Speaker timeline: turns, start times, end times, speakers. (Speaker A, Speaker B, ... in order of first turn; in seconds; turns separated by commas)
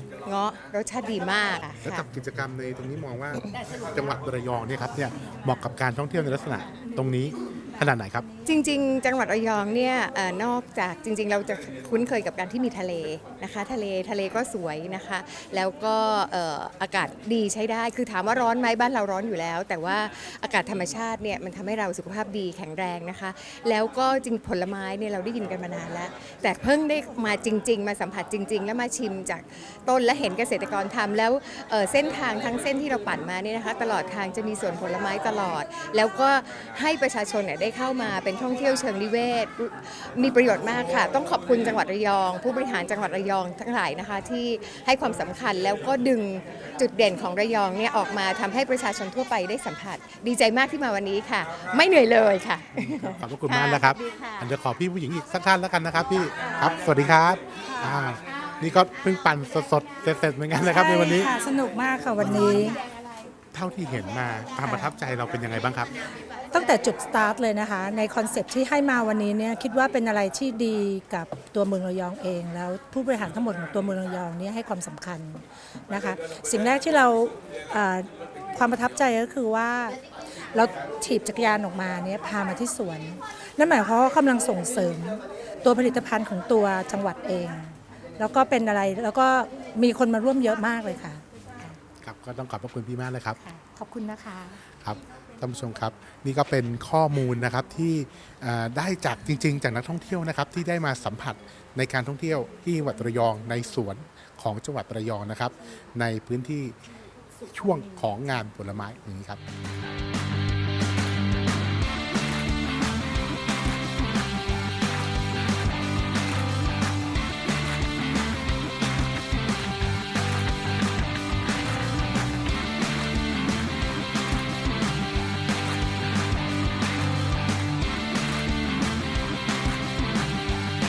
Speaker A: 0.2-2.0, Speaker B: 1.8-8.3, Speaker A: 8.4-54.5, Speaker B: 53.2-61.3, Speaker C: 60.6-62.8, Speaker B: 63.5-65.9, Speaker C: 64.6-64.9, Speaker C: 66.5-80.0, Speaker C: 80.5-91.8, Speaker B: 92.0-93.4, Speaker C: 93.4-94.6, Speaker B: 94.8-106.7, Speaker B: 107.4-109.4